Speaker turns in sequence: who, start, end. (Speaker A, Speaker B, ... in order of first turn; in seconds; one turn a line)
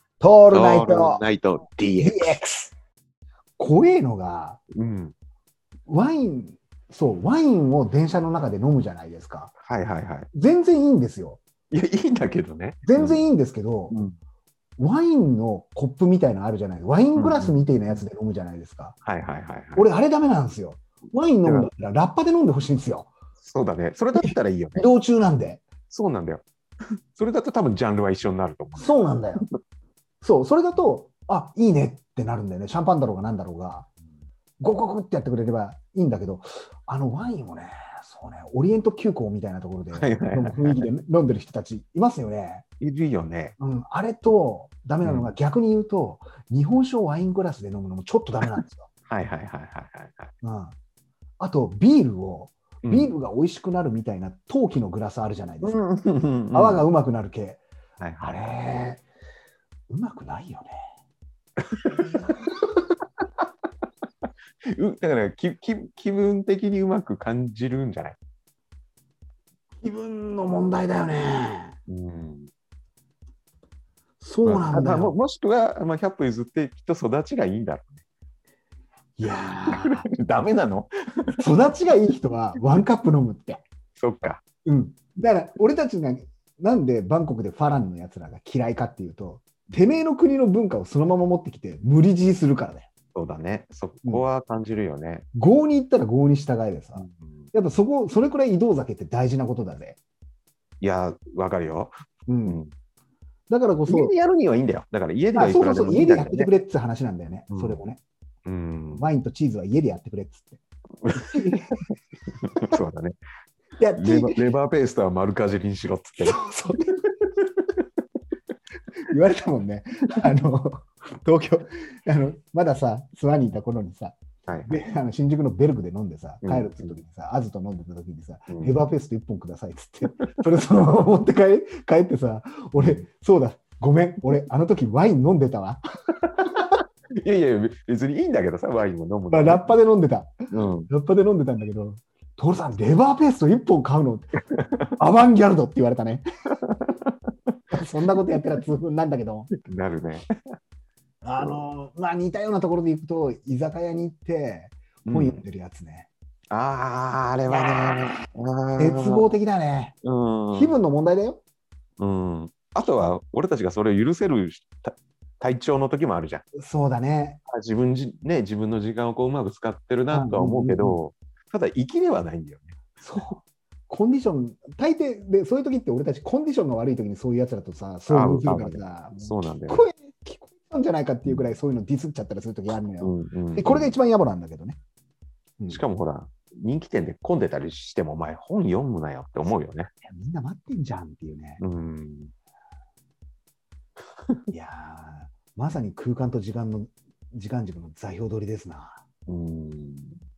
Speaker A: 0.2-1.2
Speaker B: 0.5-2.4
Speaker A: 2.0-2.7
Speaker A: 3.6-4.6
Speaker B: 4.8-5.2
Speaker A: 5.9-9.5
Speaker B: 9.6-10.3
Speaker A: 10.3-11.4
Speaker B: 11.7-13.2
Speaker A: 12.9-14.0
Speaker A: 14.8-19.0
Speaker B: 17.2-18.0
Speaker B: 19.1-19.9
Speaker A: 19.8-23.1
Speaker B: 21.4-21.7
Speaker B: 23.4-24.8
Speaker A: 24.2-25.6
Speaker B: 25.9-26.4
Speaker B: 27.1-29.5
Speaker A: 28.8-29.4
Speaker A: 30.2-33.9
Speaker A: 34.6-42.6
Speaker B: 39.9-40.9
Speaker B: 42.8-43.5
Speaker A: 43.6-48.9
Speaker B: 45.0-45.3
Speaker B: 49.1-50.3
Speaker A: 50.4-50.8
Speaker A: 51.4-55.8
Speaker B: 52.8-53.1
Speaker B: 55.6-56.9
Speaker A: 56.5-57.6
Speaker B: 58.0-58.4
Speaker A: 58.2-59.0
Speaker A: 59.9-60.7
Speaker B: 61.7-62.2
Speaker B: 64.7-68.2
Speaker A: 69.8-71.8
Speaker B: 71.9-72.5
Speaker A: 74.2-75.2
Speaker B: 74.5-78.0
Speaker A: 79.2-80.1
Speaker B: 79.7-80.9
Speaker A: 81.4-83.6
Speaker B: 84.0-84.4
Speaker A: 84.7-92.9
Speaker B: 93.2-95.3
Speaker A: 95.3-100.0
Speaker B: 97.0-97.5
Speaker B: 100.8-101.9
Speaker A: 102.3-102.6
Speaker B: 102.5-102.7
Speaker A: 103.5-104.1
Speaker B: 103.9-106.5
Speaker A: 105.3-108.0
Speaker B: 107.5-107.8
Speaker B: 108.5-109.0
Speaker A: 109.0-110.6
Speaker B: 111.0-111.8
Speaker A: 111.1-111.8
Speaker B: 112.4-113.2
Speaker A: 113.8-114.5
Speaker B: 114.0-116.4
Speaker A: 116.3-116.9
Speaker B: 117.4-117.8
Speaker A: 119.1-124.2
Speaker B: 124.5-124.8
Speaker A: 124.7-135.8
Speaker B: 126.4-127.0
Speaker B: 128.5-128.8
Speaker B: 132.8-133.0
Speaker B: 137.2-139.8
Speaker A: 139.3-140.3
Speaker B: 140.5-140.9
Speaker A: 140.9-144.3
Speaker B: 144.6-144.9
Speaker A: 145.0-146.2
Speaker B: 146.6-147.1
Speaker A: 147.7-149.5
Speaker B: 149.6-150.3
Speaker A: 151.2-156.1
Speaker B: 155.1-155.4
Speaker B: 156.5-159.2
Speaker A: 157.5-157.9
Speaker A: 158.8-160.0
Speaker B: 160.0-160.8
Speaker A: 160.5-161.4
Speaker B: 162.0-166.4
Speaker A: 166.6-167.4
Speaker B: 167.5-172.8
Speaker A: 170.1-171.0
Speaker A: 173.0-184.8
Speaker B: 178.1-179.9
Speaker B: 181.2-181.5
Speaker B: 183.0-184.0
Speaker B: 185.7-189.9
Speaker A: 190.1-191.6
Speaker B: 191.6-192.3
Speaker A: 194.5-199.0
Speaker B: 199.3-200.2